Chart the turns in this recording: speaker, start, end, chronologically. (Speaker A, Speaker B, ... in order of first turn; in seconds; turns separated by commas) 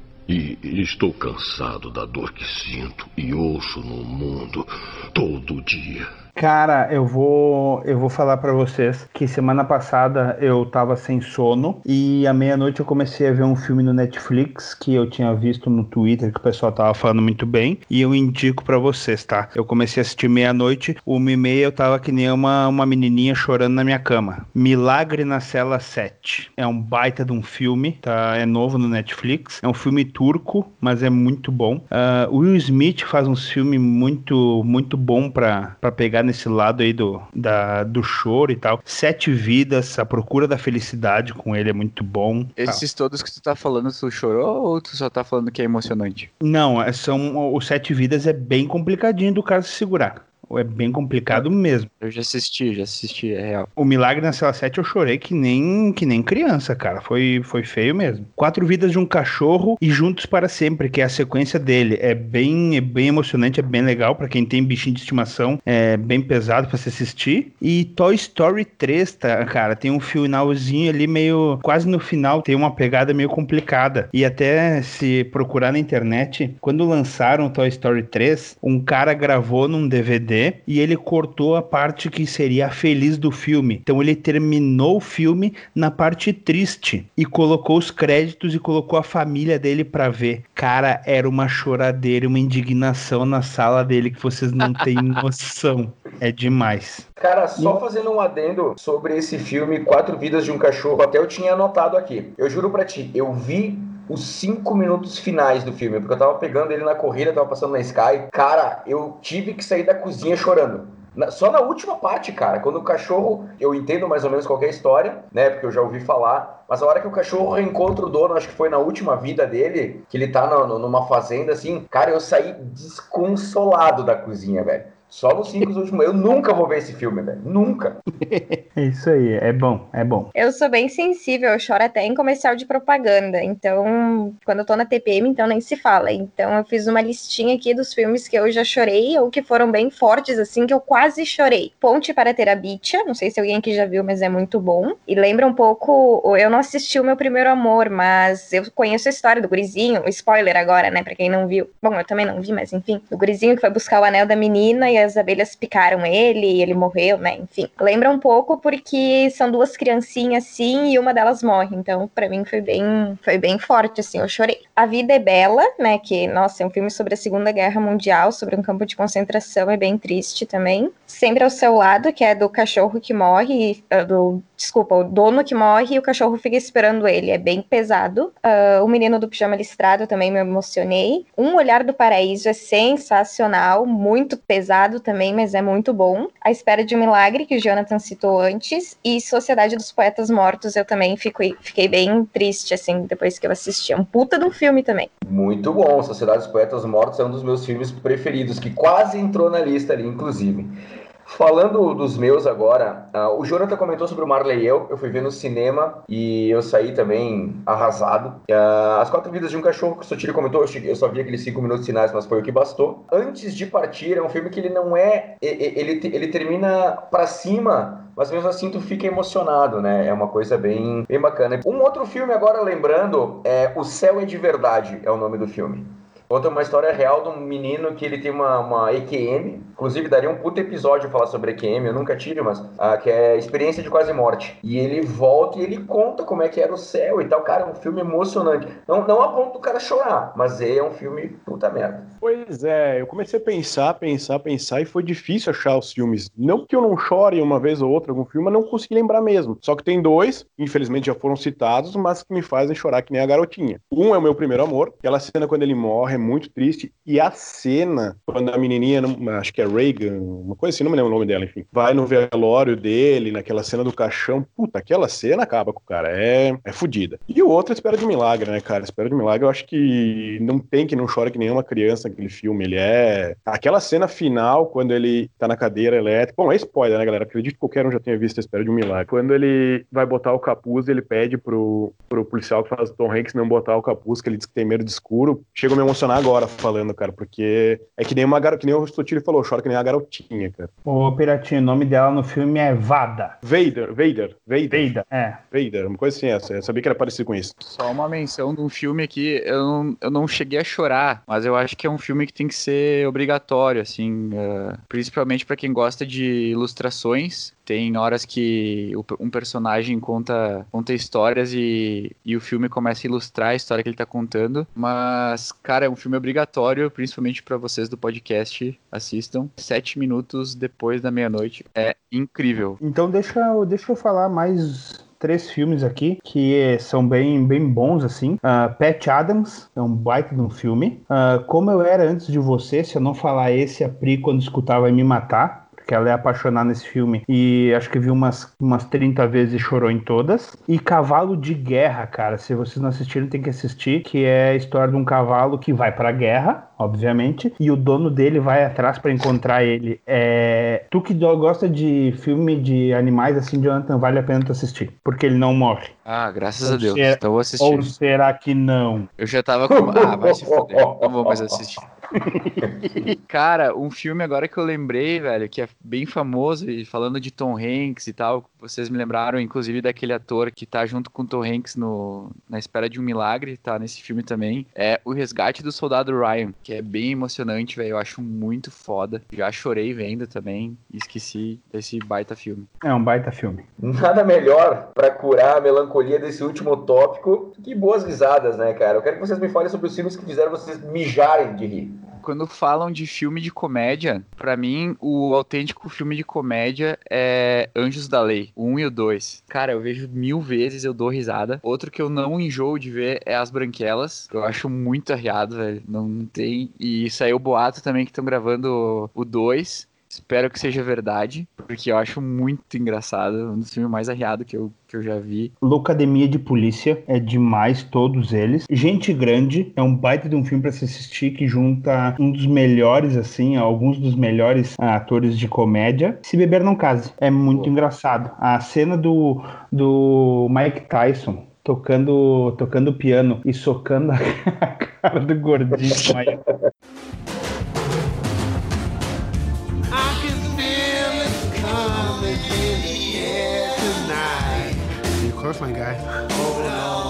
Speaker A: 0.3-6.1, Speaker B: 6.4-42.8, Speaker C: 42.6-46.3, Speaker B: 46.4-51.9, Speaker C: 52.0-53.7, Speaker B: 53.8-97.8, Speaker D: 97.2-128.0, Speaker B: 128.2-130.3, Speaker E: 130.3-195.1, Speaker D: 195.3-242.1, Speaker F: 242.2-290.7, Speaker B: 290.9-293.4, Speaker F: 293.4-294.9, Speaker B: 294.7-295.4, Speaker F: 295.5-297.6, Speaker C: 297.6-322.8, Speaker B: 322.8-355.9, Speaker C: 356.1-357.9, Speaker B: 356.6-359.1, Speaker C: 359.2-361.8, Speaker D: 359.7-361.6, Speaker C: 363.3-382.7, Speaker B: 382.8-383.6, Speaker D: 383.8-392.0, Speaker C: 392.2-415.5, Speaker B: 415.6-436.4